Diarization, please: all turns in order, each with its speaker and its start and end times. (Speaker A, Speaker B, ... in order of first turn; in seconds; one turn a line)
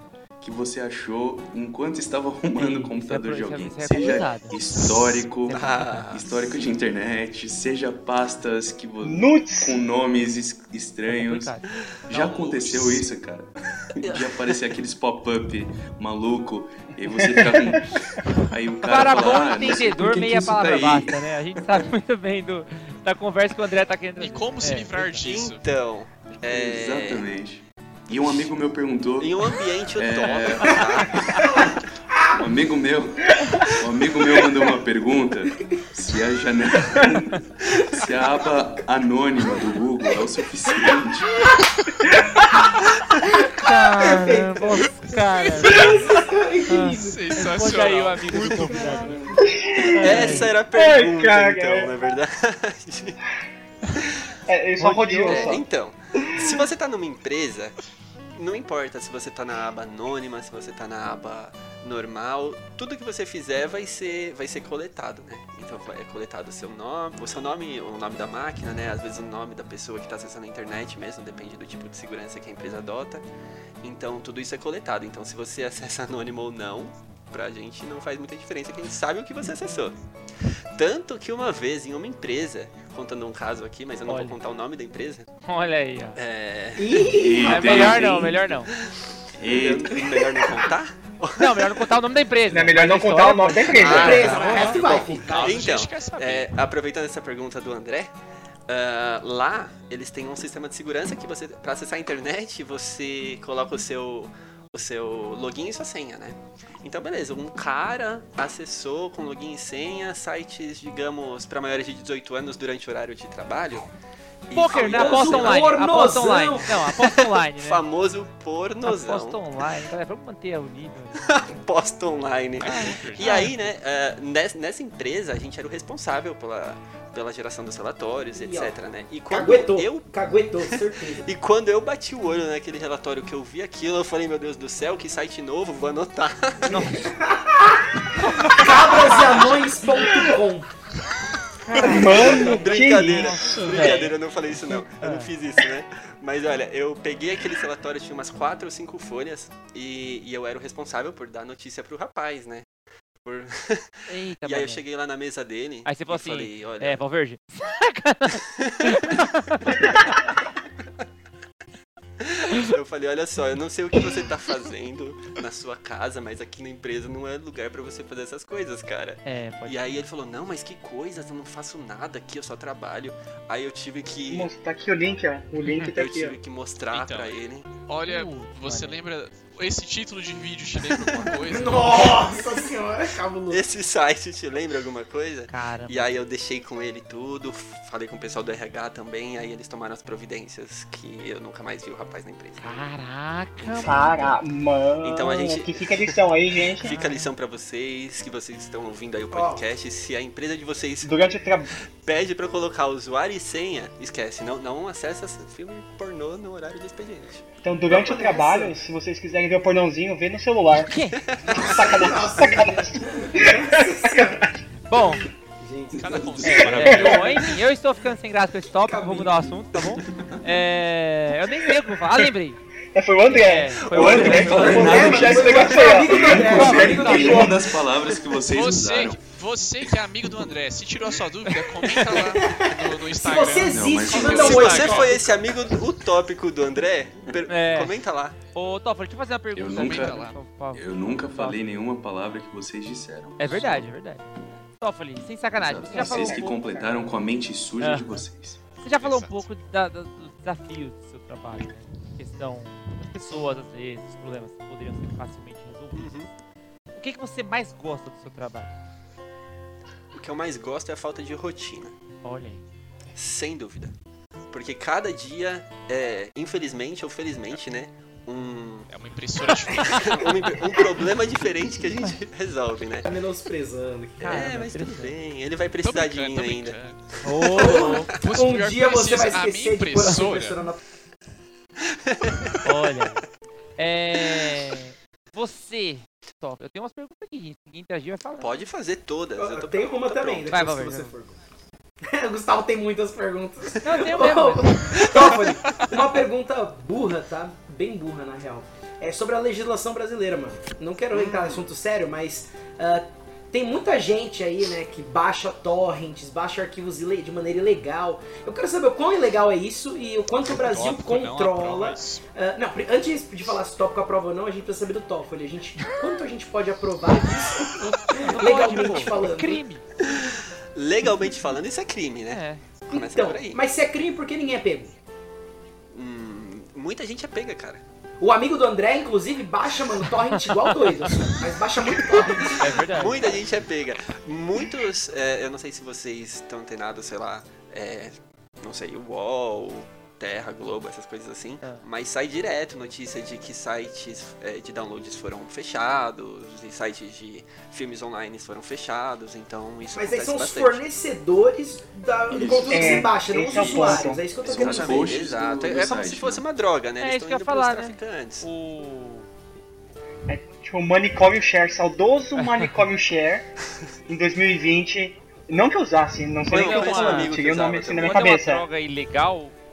Speaker A: 0.4-21.8
Speaker B: 2.6-6.3
Speaker C: 5.5-6.3
Speaker D: 9.0-9.8
Speaker B: 11.1-11.7
Speaker E: 12.1-13.1
Speaker C: 14.0-14.6
Speaker B: 18.8-25.3
Speaker E: 24.2-25.7
Speaker C: 25.2-27.3
Speaker A: 26.4-41.4
Speaker C: 29.2-31.6
Speaker B: 43.6-46.2
Speaker F: 43.7-47.3
Speaker E: 45.6-45.9
Speaker B: 46.7-49.4
Speaker E: 47.0-49.3
Speaker F: 48.5-49.1
Speaker D: 49.4-51.9
Speaker B: 49.9-50.5
Speaker C: 50.0-53.2
Speaker D: 54.5-55.6
Speaker B: 54.8-55.6
Speaker C: 55.2-57.8
Speaker C: 58.4-73.2
Speaker C: 73.8-80.0
Speaker C: 80.7-85.3
Speaker B: 84.1-84.4
Speaker B: 85.5-86.2
Speaker C: 86.2-88.0
Speaker F: 86.8-88.2
Speaker A: 87.0-88.6
Speaker B: 87.5-88.7
Speaker C: 88.8-91.9
Speaker A: 89.4-90.7
Speaker B: 91.4-95.2
Speaker D: 92.5-94.3
Speaker C: 93.8-98.1
Speaker F: 93.8-95.7
Speaker E: 94.5-96.5
Speaker C: 98.7-113.9
Speaker C: 114.5-115.7
Speaker B: 114.5-117.8
Speaker F: 114.8-116.8
Speaker C: 116.8-119.4
Speaker B: 118.8-121.4
Speaker C: 121.2-130.1
Speaker E: 122.6-123.6
Speaker B: 122.6-123.7
Speaker F: 128.3-128.8
Speaker F: 129.3-131.3
Speaker C: 130.7-136.9
Speaker F: 136.7-137.9
Speaker B: 136.7-137.1
Speaker B: 138.2-139.5
Speaker F: 138.4-140.7
Speaker D: 140.0-140.3
Speaker B: 141.6-145.3
Speaker C: 141.7-152.7
Speaker D: 141.8-144.0
Speaker C: 153.2-157.0
Speaker B: 154.1-154.8
Speaker B: 155.8-160.1
Speaker C: 158.6-159.2
Speaker C: 162.2-174.5
Speaker B: 169.2-170.0
Speaker D: 174.3-176.4
Speaker B: 175.6-175.9
Speaker C: 175.8-177.7
Speaker E: 176.9-182.4
Speaker B: 178.0-179.0
Speaker F: 181.4-183.7
Speaker C: 183.5-192.7
Speaker B: 185.5-186.1
Speaker B: 192.6-194.4
Speaker C: 193.6-194.1
Speaker D: 193.8-196.9
Speaker C: 195.0-196.3
Speaker C: 196.8-201.2
Speaker B: 196.8-197.3
Speaker F: 199.3-199.6
Speaker D: 201.0-201.7
Speaker C: 202.0-207.4
Speaker D: 207.6-210.9
Speaker F: 207.9-208.8
Speaker B: 210.8-211.3
Speaker C: 211.2-211.6
Speaker F: 211.4-214.4
Speaker D: 211.5-214.4
Speaker B: 214.9-215.3
Speaker F: 215.5-217.2
Speaker E: 215.9-217.6
Speaker A: 216.2-217.1
Speaker D: 216.4-217.3
Speaker B: 216.7-222.6
Speaker F: 218.8-219.8
Speaker D: 222.9-227.5
Speaker B: 223.2-225.1
Speaker A: 223.9-229.2
Speaker F: 224.2-227.6
Speaker B: 226.5-227.5
Speaker E: 228.5-235.5
Speaker B: 231.6-232.3
Speaker F: 232.3-235.1
Speaker A: 233.7-235.0
Speaker C: 234.2-238.4
Speaker B: 237.5-238.0
Speaker B: 238.5-241.6
Speaker A: 239.5-243.9
Speaker E: 239.7-240.4
Speaker B: 243.4-246.8
Speaker A: 245.6-248.6
Speaker D: 245.9-246.9
Speaker B: 247.8-248.3
Speaker B: 248.8-256.2
Speaker E: 248.9-249.5
Speaker C: 255.9-256.3
Speaker B: 256.9-258.7
Speaker C: 260.1-261.9
Speaker B: 262.2-262.6
Speaker C: 263.1-263.9
Speaker C: 264.5-268.9
Speaker E: 268.9-270.7
Speaker C: 269.9-273.1
Speaker F: 273.1-274.3
Speaker C: 274.2-276.8
Speaker B: 274.2-275.1
Speaker E: 275.8-277.2
Speaker B: 277.2-278.2
Speaker F: 277.5-280.8
Speaker C: 277.6-278.0
Speaker E: 278.1-280.6
Speaker C: 281.8-282.6
Speaker B: 282.6-283.2
Speaker B: 283.8-288.7
Speaker C: 288.4-290.5
Speaker F: 289.4-291.4
Speaker B: 290.5-291.1
Speaker F: 292.1-319.6
Speaker B: 293.8-295.4
Speaker C: 301.1-301.7
Speaker E: 310.4-312.3
Speaker B: 318.2-319.8
Speaker C: 320.0-323.6
Speaker B: 322.3-322.7
Speaker F: 322.9-324.9
Speaker C: 325.9-327.8
Speaker F: 328.2-332.8
Speaker B: 330.4-331.4
Speaker C: 332.1-350.8
Speaker B: 332.4-333.4
Speaker B: 341.6-341.9
Speaker F: 349.9-355.1
Speaker A: 352.3-356.4
Speaker D: 352.7-354.2
Speaker C: 354.4-358.5
Speaker B: 357.0-359.3
Speaker D: 360.3-363.5
Speaker B: 362.4-362.8
Speaker D: 364.1-368.6
Speaker C: 366.5-368.1
Speaker B: 366.5-367.4
Speaker B: 368.0-369.6